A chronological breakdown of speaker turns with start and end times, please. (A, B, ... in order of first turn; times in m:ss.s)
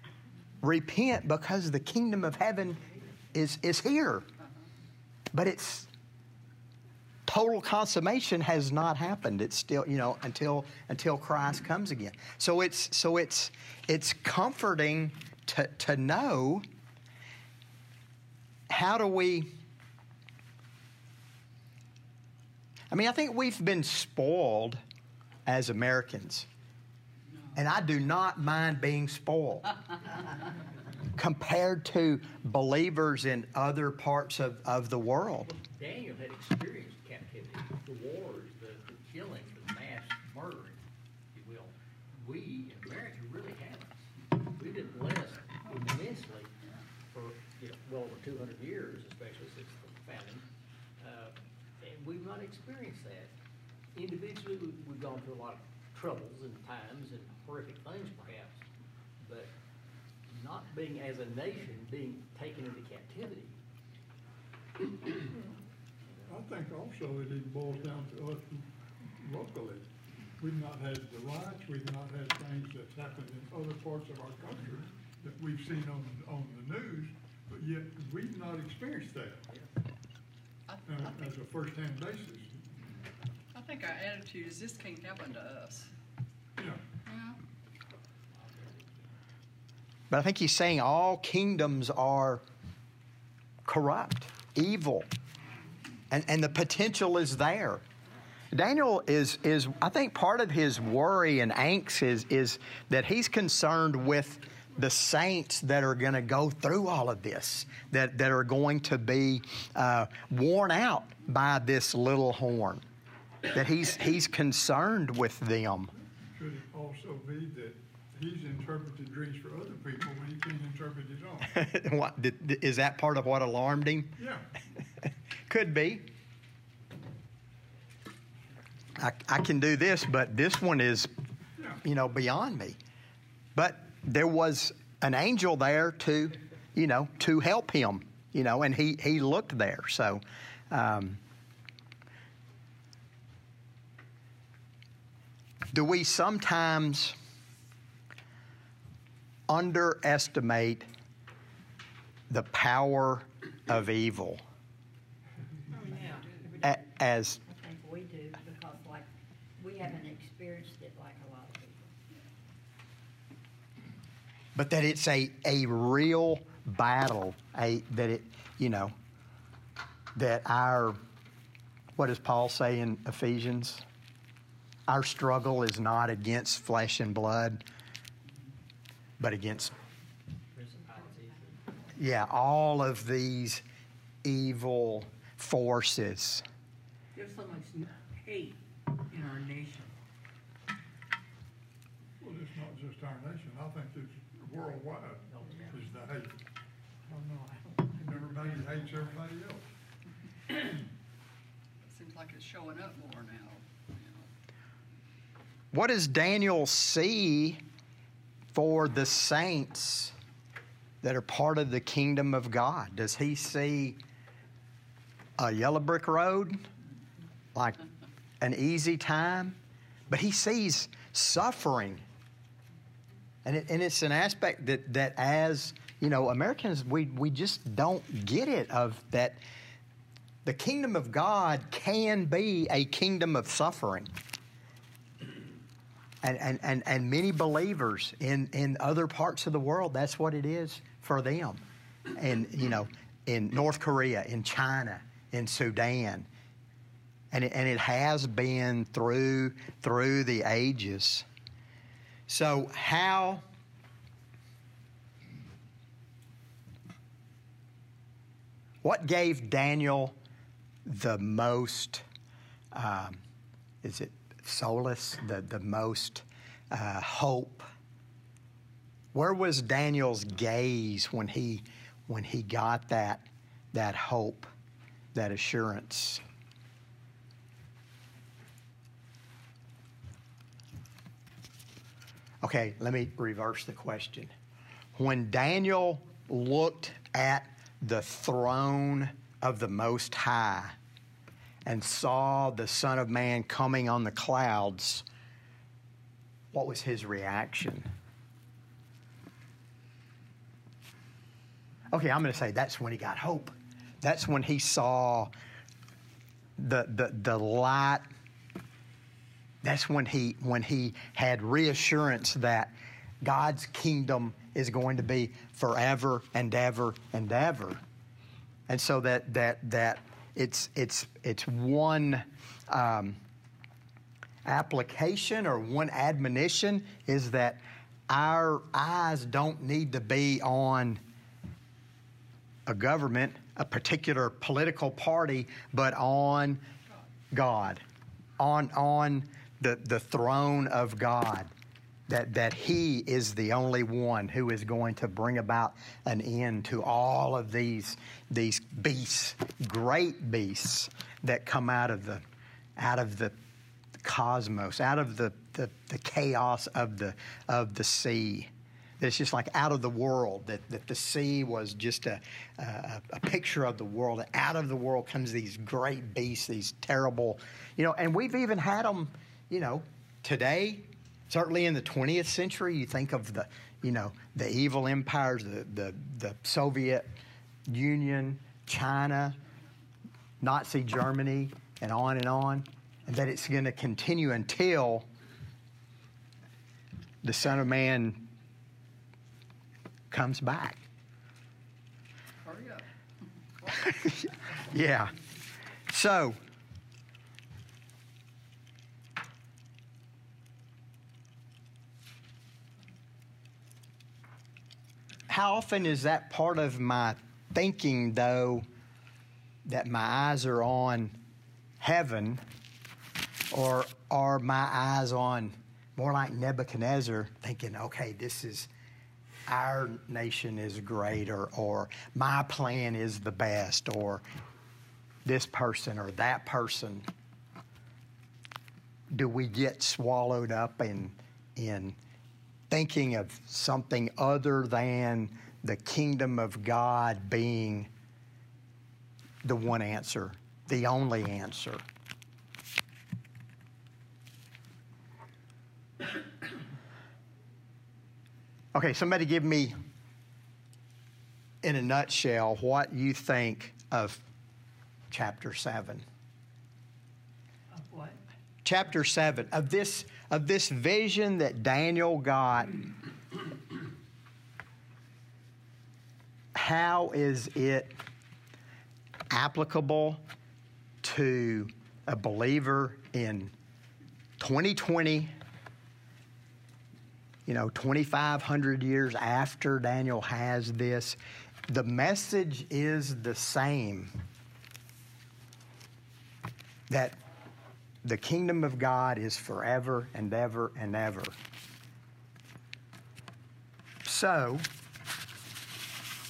0:00.6-0:04.3 A
0:05.3-0:05.9 A
0:07.3-0:16.6 A
0:18.7-0:19.5 A
0:22.9-0:24.8 A
0:25.4-0:26.5 A
0:27.3-0:27.6 B
0:27.6-0:29.7 A
0:31.1-0:35.5 A
0:35.5-0:40.8 C
0:41.3-0:46.5 C
0:47.1-0:50.4 C
0:51.0-0:53.3 C
0:53.9-0:58.6 C
0:59.2-0:59.5 C
1:00.3-1:03.6 C
1:06.3-1:09.9 D
1:10.4-1:19.4 D
1:20.7-1:21.4 B
1:20.9-1:22.6 D
1:23.5-1:25.9 B
1:26.6-1:26.8 D
1:27.0-1:27.4 B
1:30.1-1:32.4 A
1:33.6-1:35.1 A
1:36.1-1:37.8 A
1:38.5-1:52.8 A
1:53.5-1:55.9 A
1:56.2-2:01.5 D
2:01.5-2:04.1 A
2:04.2-2:04.4 D
2:05.5-2:06.1 A
2:09.0-2:11.1 A
2:11.8-2:12.8 A
2:13.6-2:21.2 A
2:25.7-2:27.2 A
2:29.5-2:30.9 A
2:32.3-2:34.4 A
2:35.7-2:36.6 E
2:36.6-2:37.4 A
2:37.4-2:39.1 F
2:39.6-2:41.9 F
2:44.5-2:48.9 A
2:50.2-2:51.0 A
2:52.0-2:53.8 A
2:54.9-2:57.6 A
2:59.2-2:59.8 A
3:00.5-3:01.6 C
3:02.0-3:03.6 A
3:04.2-3:06.4 A
3:07.2-3:09.9 E
3:12.2-3:16.4 D
3:15.3-3:15.7 C
3:17.1-3:18.5 E
3:17.9-3:19.6 D
3:21.8-3:24.3 B
3:25.7-3:27.6 A
3:28.5-3:30.1 A
3:31.0-3:34.0 A
3:35.4-3:36.6 A
3:37.5-3:37.8 A
3:38.4-3:39.6 A
3:40.1-3:42.0 A
3:43.4-3:49.4 A
3:50.4-3:54.1 A
3:56.2-4:01.6 A
4:02.2-4:06.3 A
4:07.3-4:11.2 A
4:12.3-4:13.4 A
4:18.8-4:20.2 A
4:20.9-4:22.0 A
4:22.7-4:23.2 A
4:23.8-4:27.7 A
4:29.1-4:34.5 A
4:35.1-4:36.2 A
4:42.4-4:44.3 A
4:45.0-4:50.8 A
4:51.6-4:55.1 A
4:56.5-4:57.9 A
5:01.9-5:05.3 A
5:06.6-5:08.1 A
5:09.6-5:17.8 A
5:18.7-5:23.2 A
5:24.4-5:31.0 A
5:32.7-5:36.6 A
5:37.3-5:37.8 A
5:38.4-5:41.5 A
5:42.1-5:52.2 A
5:52.8-5:53.4 A
5:54.0-5:58.5 A
5:59.0-6:17.1 A
6:17.7-6:19.4 A
6:20.4-6:25.1 A
6:27.2-6:28.3 A
6:30.1-6:30.8 A
6:32.4-6:32.9 B
6:33.8-6:35.1 A
6:35.9-6:36.4 A
6:45.3-6:48.6 A
6:49.6-6:51.2 A
6:51.8-6:52.4 A
6:53.5-6:58.7 A
6:59.5-7:04.2 A
7:05.2-7:07.1 A
7:09.1-7:12.0 A
7:12.7-7:17.9 A
7:19.4-7:21.8 A
7:28.7-7:29.8 A
7:31.6-7:34.2 A
7:35.1-7:36.0 A
7:37.8-7:38.2 E
7:38.6-7:42.8 A
7:46.5-7:47.9 A
7:49.3-7:50.2 A
7:51.0-7:53.5 A
7:54.4-7:55.3 A
7:57.5-8:01.2 A
8:01.7-8:04.1 A
8:06.9-8:07.2 A
8:08.0-8:11.3 A
8:14.0-8:14.6 A